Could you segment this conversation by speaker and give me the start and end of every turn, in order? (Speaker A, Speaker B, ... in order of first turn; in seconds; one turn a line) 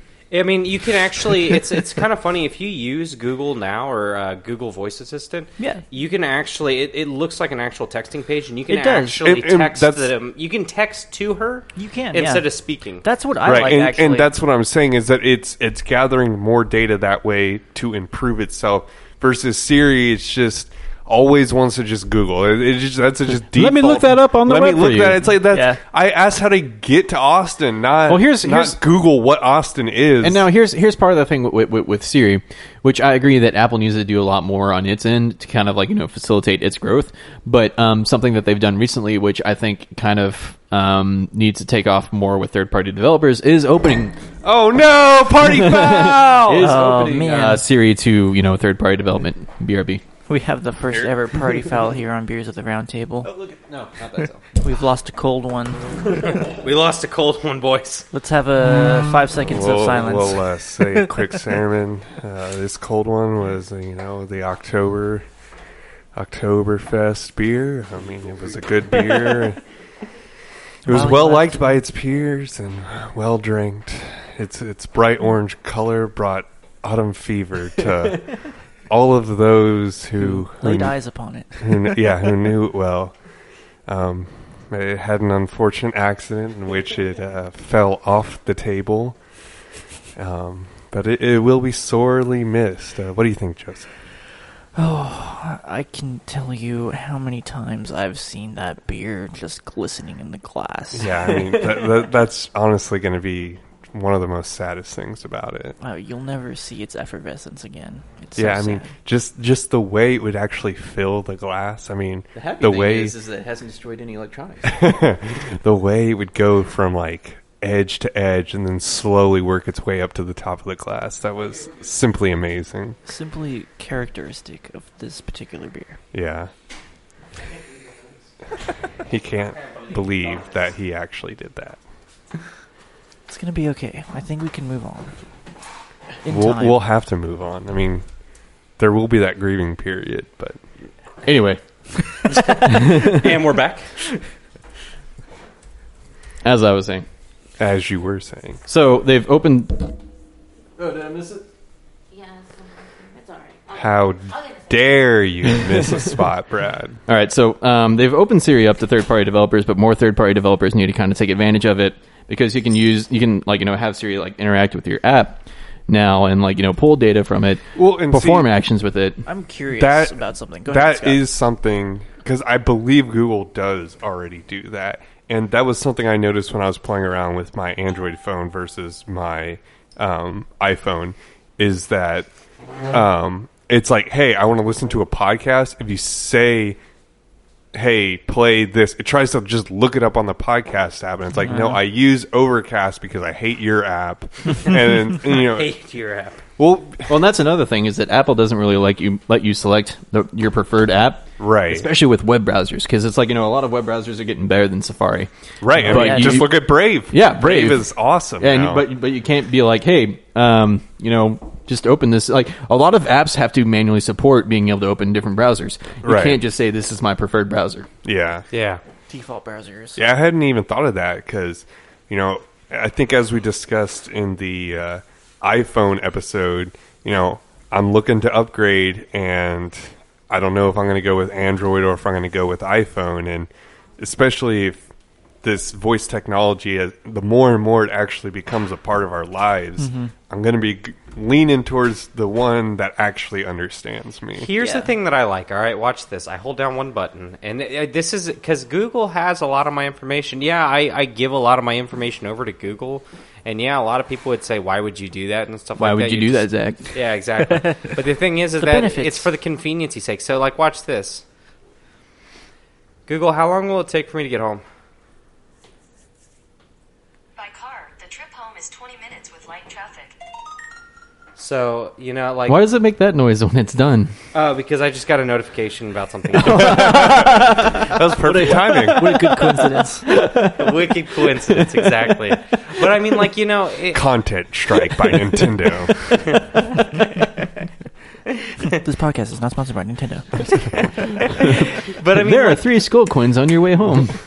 Speaker A: 0.3-13.0
Speaker B: 5.6-5.8
Speaker B: 8.7-9.3
Speaker C: 9.2-10.1
Speaker B: 11.8-12.5
Speaker B: 13.0-14.3
Speaker C: 13.4-30.4
Speaker D: 23.5-25.2
Speaker B: 25.5-25.8
Speaker D: 28.1-28.8
Speaker D: 30.2-44.2
Speaker C: 44.4-46.7
Speaker D: 45.4-50.0
Speaker B: 46.6-47.6
Speaker B: 50.3-53.3
Speaker D: 53.2-54.4
Speaker B: 54.6-56.4
Speaker A: 56.2-58.1
Speaker B: 58.1-61.3
Speaker C: 59.5-65.2
Speaker C: 66.1-69.6
Speaker C: 70.8-81.0
Speaker B: 70.9-71.8
Speaker B: 80.2-82.2
Speaker C: 81.6-83.2
Speaker C: 83.9-89.2
Speaker C: 90.2-93.9
Speaker B: 94.8-101.9
Speaker C: 100.9-105.8
Speaker B: 105.8-108.9
Speaker C: 108.4-113.1
Speaker D: 112.3-114.8
Speaker C: 114.6-123.0
Speaker B: 123.1-126.0
Speaker C: 126.1-126.5
Speaker C: 129.0-131.8
Speaker B: 133.3-135.2
Speaker B: 136.2-136.8
Speaker C: 136.3-138.0
Speaker C: 138.8-140.6
Speaker D: 141.2-143.4
Speaker A: 142.3-144.0
Speaker D: 146.4-147.1
Speaker C: 147.6-148.6
Speaker D: 148.7-150.0
Speaker D: 150.8-151.4
Speaker E: 152.1-153.8
Speaker C: 153.7-157.0
Speaker E: 154.3-154.7
Speaker D: 157.1-169.2
Speaker C: 167.8-168.5
Speaker B: 169.2-171.2
Speaker C: 169.8-170.2
Speaker C: 170.7-182.3
Speaker C: 182.9-186.8
Speaker C: 187.7-195.7
Speaker B: 191.4-191.8
Speaker A: 194.6-196.4
Speaker C: 196.6-197.1
Speaker D: 197.1-217.9
Speaker C: 201.4-201.9
Speaker C: 205.6-208.8
Speaker B: 205.7-206.4
Speaker C: 216.0-216.4
Speaker C: 218.0-218.4
Speaker A: 218.5-218.8
Speaker B: 219.1-220.1
Speaker C: 220.0-234.8
Speaker C: 235.4-244.5
Speaker B: 239.8-240.1
Speaker A: 244.3-261.2
Speaker B: 244.6-244.9
Speaker D: 255.8-256.9
Speaker B: 258.6-259.3
Speaker A: 263.1-264.6
Speaker E: 267.4-270.1
Speaker A: 271.4-272.6
Speaker D: 272.5-274.1
Speaker A: 274.3-277.2
Speaker D: 276.4-280.8
Speaker C: 276.6-279.0
Speaker B: 278.3-280.2
Speaker A: 280.5-284.1
Speaker D: 281.4-281.9
Speaker C: 283.9-286.0
Speaker A: 286.1-287.0
Speaker A: 288.3-288.8
Speaker B: 288.7-291.1
Speaker A: 290.6-292.7
Speaker D: 292.1-294.2